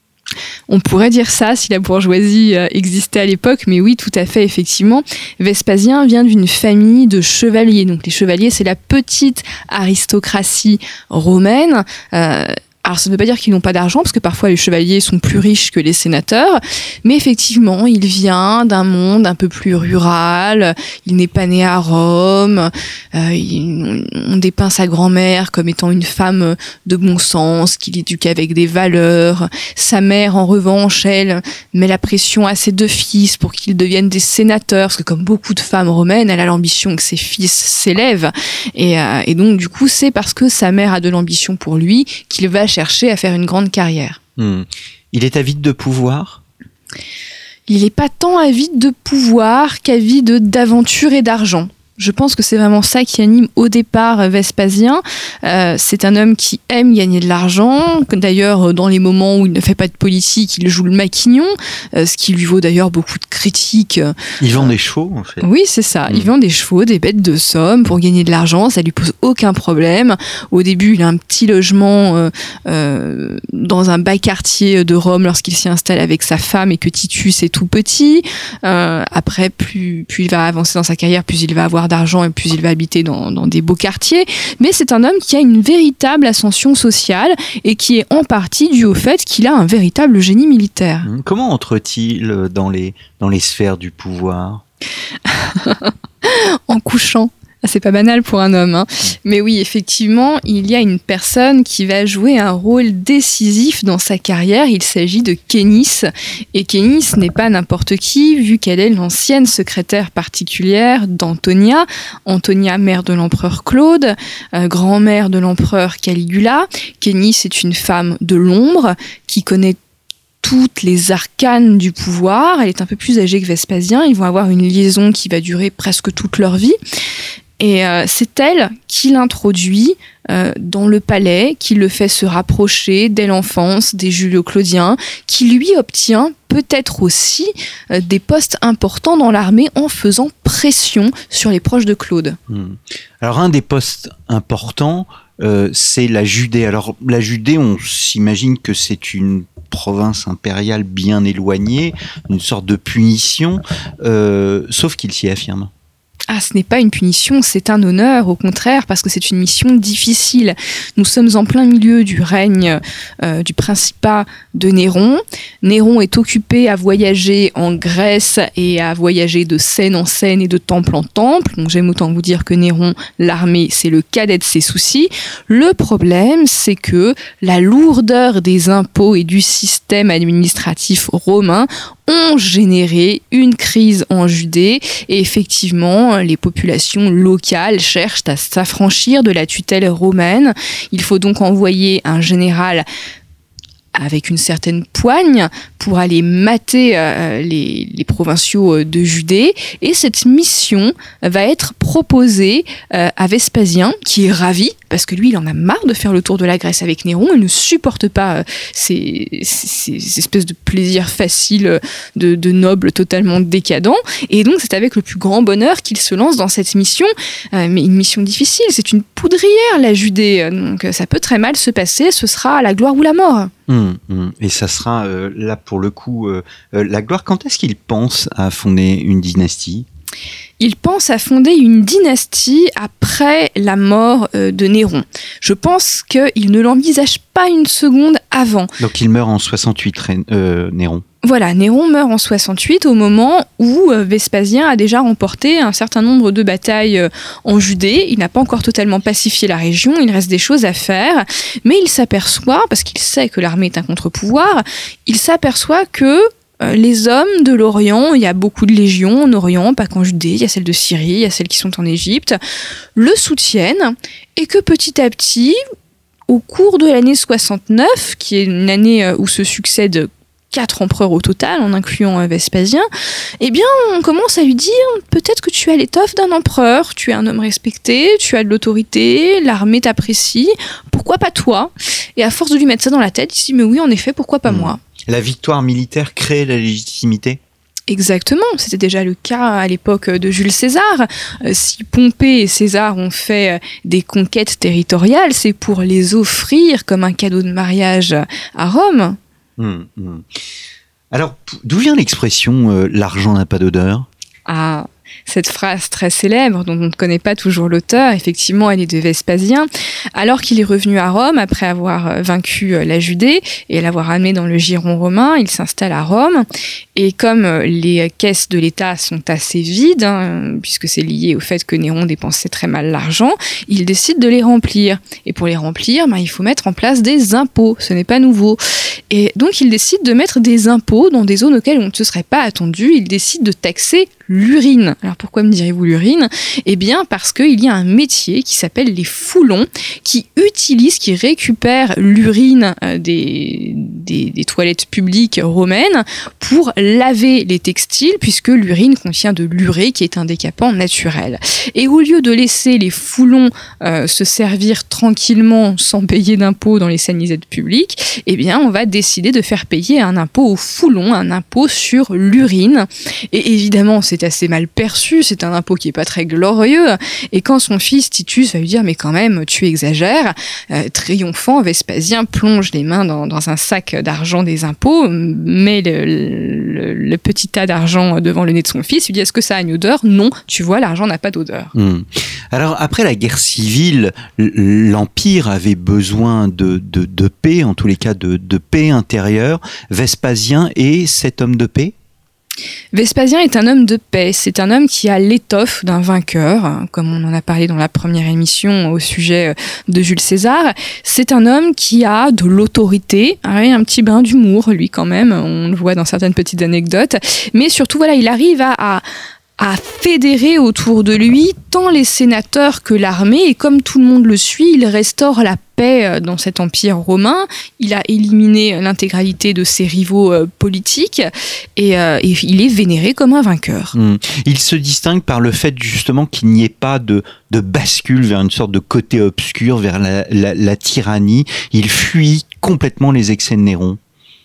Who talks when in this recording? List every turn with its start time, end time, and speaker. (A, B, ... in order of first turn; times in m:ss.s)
0:00.7-0:44.2 A
0:44.4-0:46.4 B
0:47.7-1:04.7 A
1:04.4-1:05.5 B
1:05.4-1:31.1 A
1:31.0-1:34.6 B
1:35.2-1:59.8 A
2:00.4-2:06.8 A
2:07.6-2:22.4 A
2:22.5-2:35.7 B
2:36.3-3:12.8 A
3:13.9-3:43.5 A
3:43.7-3:49.8 B
3:50.6-3:58.7 A
3:58.8-4:01.0 B
4:01.2-4:22.4 A
4:23.0-4:25.6 A
4:26.3-4:32.8 A
4:33.4-4:44.8 A
4:44.4-4:47.4 B
4:47.9-4:59.2 A
4:59.6-5:00.2 B
5:01.1-5:04.1 B
5:04.4-5:16.4 A
5:17.0-6:21.7 A
6:21.7-6:31.9 B
6:32.9-6:49.0 A
6:49.6-7:03.9 A
7:03.9-7:14.0 B